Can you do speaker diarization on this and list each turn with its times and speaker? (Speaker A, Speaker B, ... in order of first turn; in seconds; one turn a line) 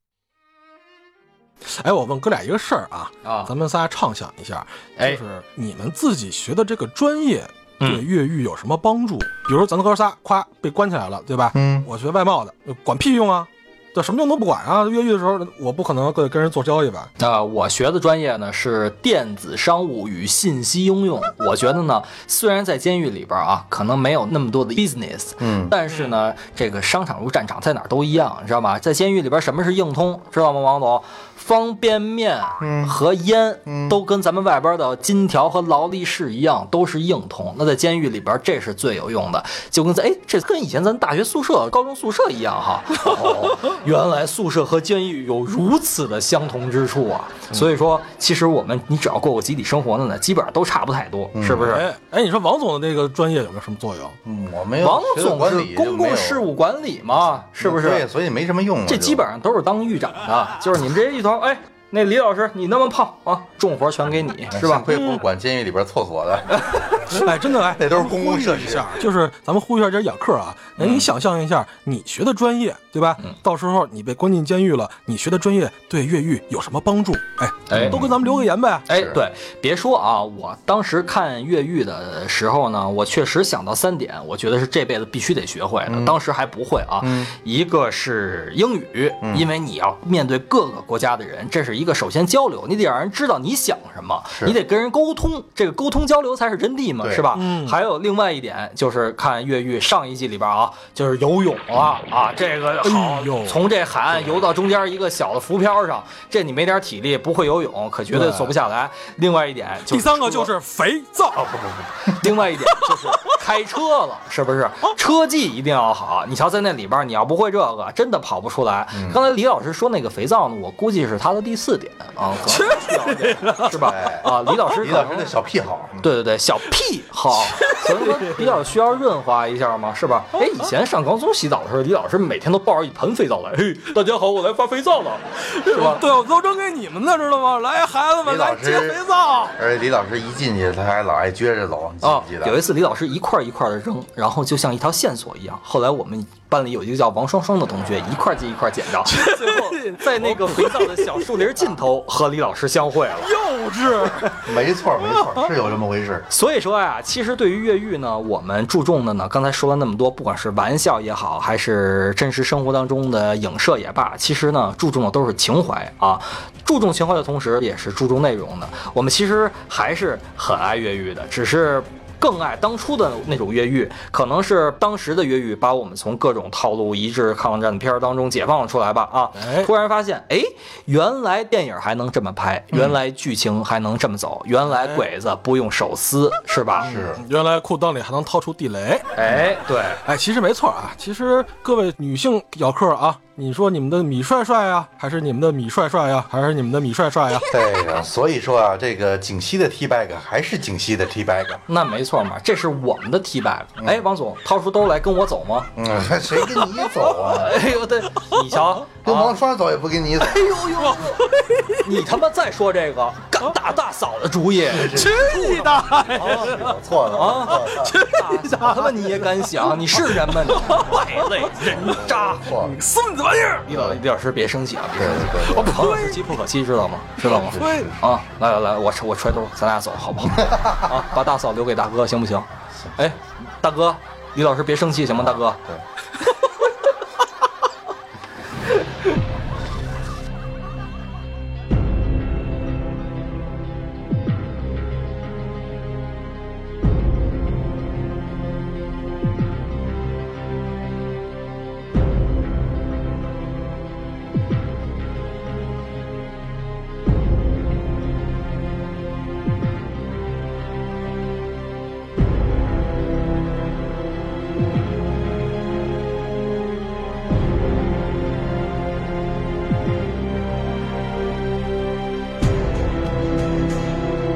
Speaker A: 1.6-17.1
Speaker B: 3.2-3.5
Speaker C: 11.5-11.9
Speaker B: 17.2-51.9
Speaker C: 25.4-25.7
Speaker C: 32.6-33.0
Speaker C: 33.7-34.0
Speaker A: 43.0-43.6
Speaker C: 51.3-51.8
Speaker A: 51.6-54.2
Speaker C: 54.2-56.5
Speaker B: 54.8-58.0
Speaker C: 57.6-59.2
Speaker B: 58.9-64.9
Speaker C: 64.5-66.6
Speaker A: 64.9-65.2
Speaker B: 66.5-67.2
Speaker A: 67.1-78.8
Speaker C: 67.7-69.0
Speaker B: 70.8-71.1
Speaker B: 77.7-78.1
Speaker C: 77.8-78.2
Speaker B: 78.9-110.5
Speaker C: 78.9-79.2
Speaker C: 85.9-86.2
Speaker C: 87.0-87.3
Speaker C: 89.2-89.5
Speaker C: 94.3-94.6
Speaker C: 97.0-97.2
Speaker A: 97.3-97.7
Speaker A: 102.8-103.6
Speaker A: 108.1-108.5
Speaker A: 109.9-111.5
Speaker C: 111.4-111.9
Speaker B: 112.0-125.3
Speaker A: 112.7-113.3
Speaker C: 118.9-119.2
Speaker A: 122.5-123.9
Speaker C: 123.8-126.1
Speaker B: 126.0-136.0
Speaker A: 127.5-128.4
Speaker A: 135.5-139.6
Speaker C: 138.2-139.0
Speaker C: 139.6-142.6
Speaker B: 142.0-153.3
Speaker A: 149.1-151.2
Speaker A: 153.2-154.4
Speaker C: 154.4-156.3
Speaker A: 155.1-155.4
Speaker B: 156.3-186.9
Speaker A: 179.3-179.7
Speaker C: 182.7-183.0
Speaker C: 186.8-187.2
Speaker A: 186.8-189.1
Speaker B: 189.2-190.0
Speaker A: 190.0-197.5
Speaker C: 197.5-201.6
Speaker B: 201.7-205.7
Speaker C: 205.8-207.6
Speaker B: 207.2-209.3
Speaker C: 209.0-210.5
Speaker B: 210.3-211.2
Speaker A: 210.7-211.9
Speaker B: 211.8-215.5
Speaker C: 214.7-215.5
Speaker A: 214.8-216.7
Speaker B: 216.2-216.5
Speaker C: 216.2-218.0
Speaker B: 217.1-222.5
Speaker A: 217.6-219.2
Speaker A: 220.0-223.7
Speaker C: 221.8-222.7
Speaker B: 223.7-235.6
Speaker C: 223.7-224.0
Speaker C: 224.9-225.8
Speaker A: 225.6-226.3
Speaker A: 227.2-227.9
Speaker C: 227.5-227.9
Speaker C: 230.4-230.8
Speaker C: 235.2-235.8